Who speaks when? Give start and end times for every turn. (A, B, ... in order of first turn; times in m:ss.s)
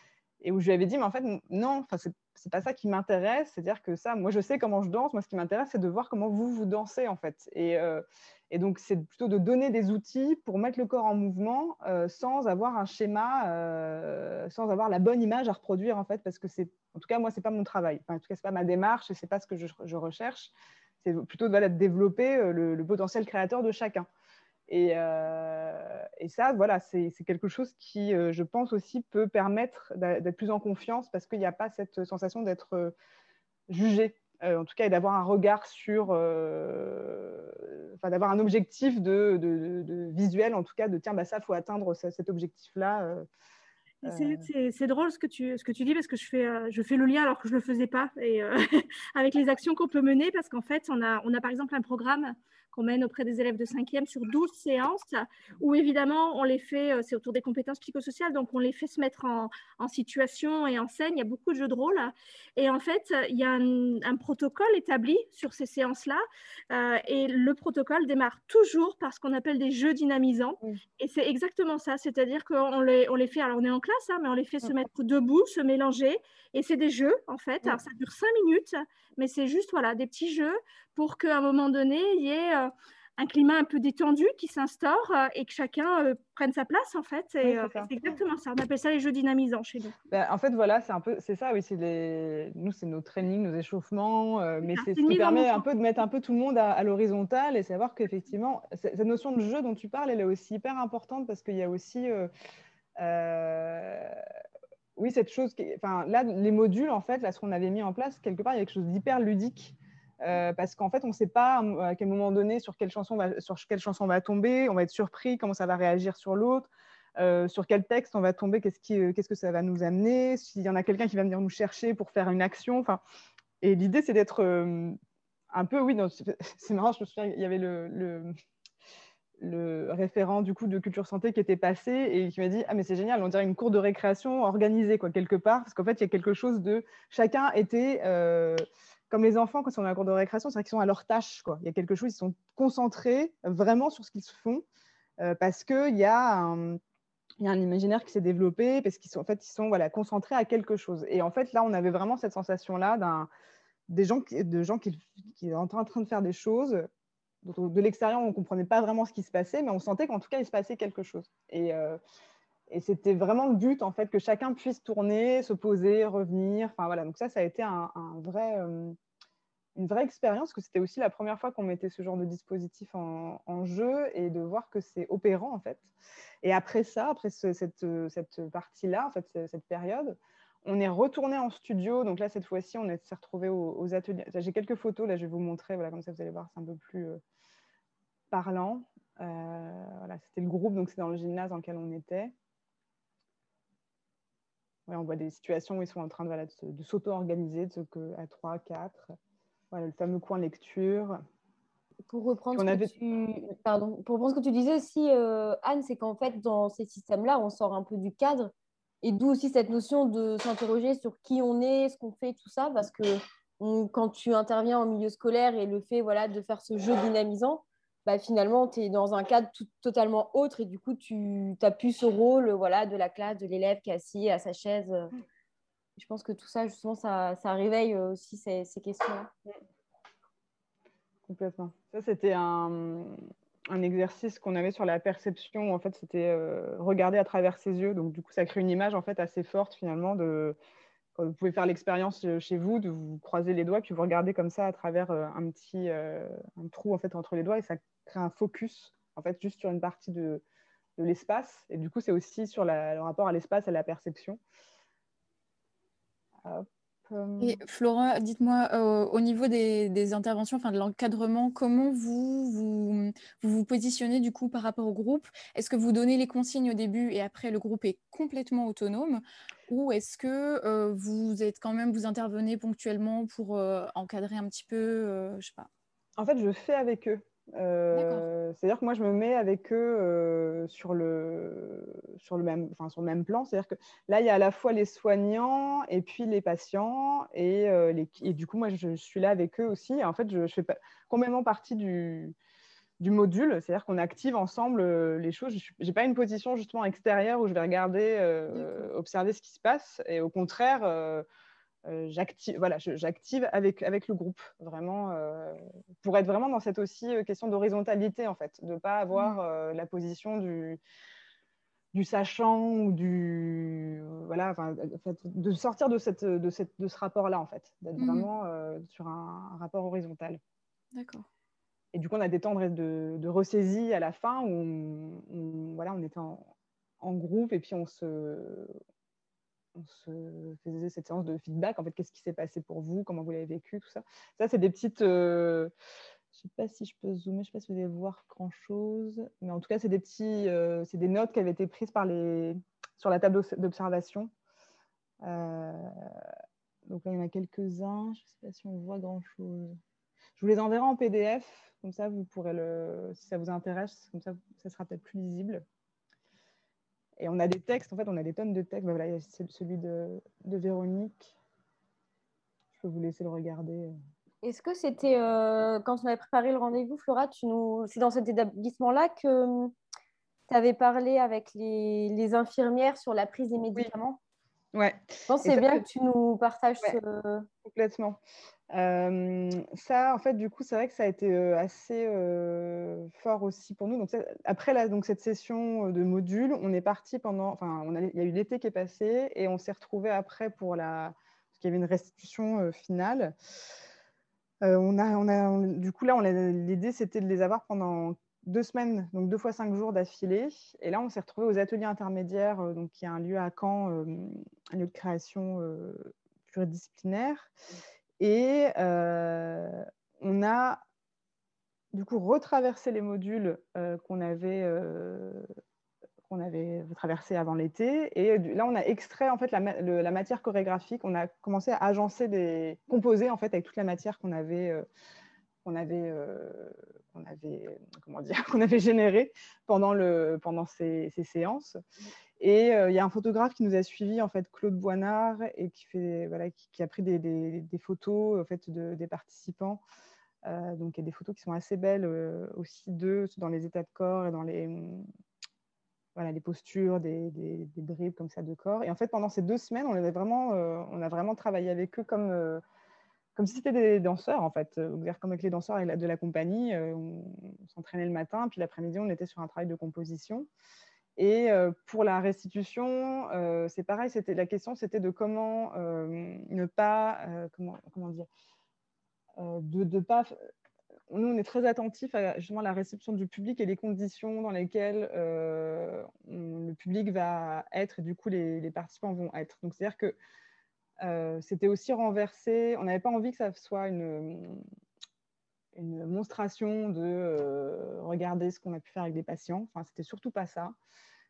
0:00.4-0:24.1 A
0:24.7-0:32.9 A
0:33.7-0:43.3 A
0:44.0-1:30.0 B
0:44.0-0:44.5 A
1:27.4-1:28.2 A
1:30.1-1:42.3 A
1:34.6-1:35.6 B
1:43.0-1:44.2 A
1:45.0-2:03.0 A
2:03.6-2:05.0 A
2:05.5-2:08.3 A
2:09.4-2:24.6 A
2:25.2-2:26.8 A
2:27.4-2:33.3 A
2:33.9-2:36.9 A
2:37.4-2:42.0 A
2:42.7-2:49.0 A
2:49.8-2:55.9 A
2:56.4-3:07.2 A
3:08.3-3:12.3 A
3:14.9-3:19.1 A
3:19.7-3:21.2 A
3:22.1-3:45.1 C
3:22.6-3:22.9 A
3:46.0-3:49.3 C
3:51.3-4:00.6 A
4:01.2-4:10.4 A
4:11.0-4:14.4 A
4:16.4-4:17.6 A
4:17.4-4:35.7 D
4:36.2-4:52.4 A
4:37.9-4:38.3 D
4:53.0-5:01.2 A
5:01.9-5:10.8 A
5:09.2-5:09.4 D
5:11.9-5:20.4 A
5:18.0-5:18.3 D
5:20.9-5:21.3 D
5:21.9-5:26.5 A
5:27.0-5:28.7 A
5:29.8-5:35.7 A
5:36.3-5:44.3 A
5:45.2-5:45.9 A
5:46.9-5:49.8 A
5:50.4-5:55.6 A
5:57.2-6:01.3 A
6:02.8-6:03.9 A
6:04.4-6:09.7 C
6:10.5-6:14.2 C
6:14.7-6:15.8 A
6:15.3-6:17.5 C
6:17.6-6:18.2 A
6:18.7-6:33.3 A
6:34.6-6:47.5 A
6:48.2-6:50.8 A
6:51.9-6:55.5 A
6:56.3-7:04.9 A
7:05.6-7:11.8 A
7:12.4-7:19.8 A
7:20.4-7:25.1 A
7:26.2-7:32.6 A
7:33.4-7:40.5 A
7:41.2-7:48.3 A
7:49.4-7:50.4 A
7:51.1-8:00.2 A
8:01.0-8:04.6 A
8:05.8-8:10.8 A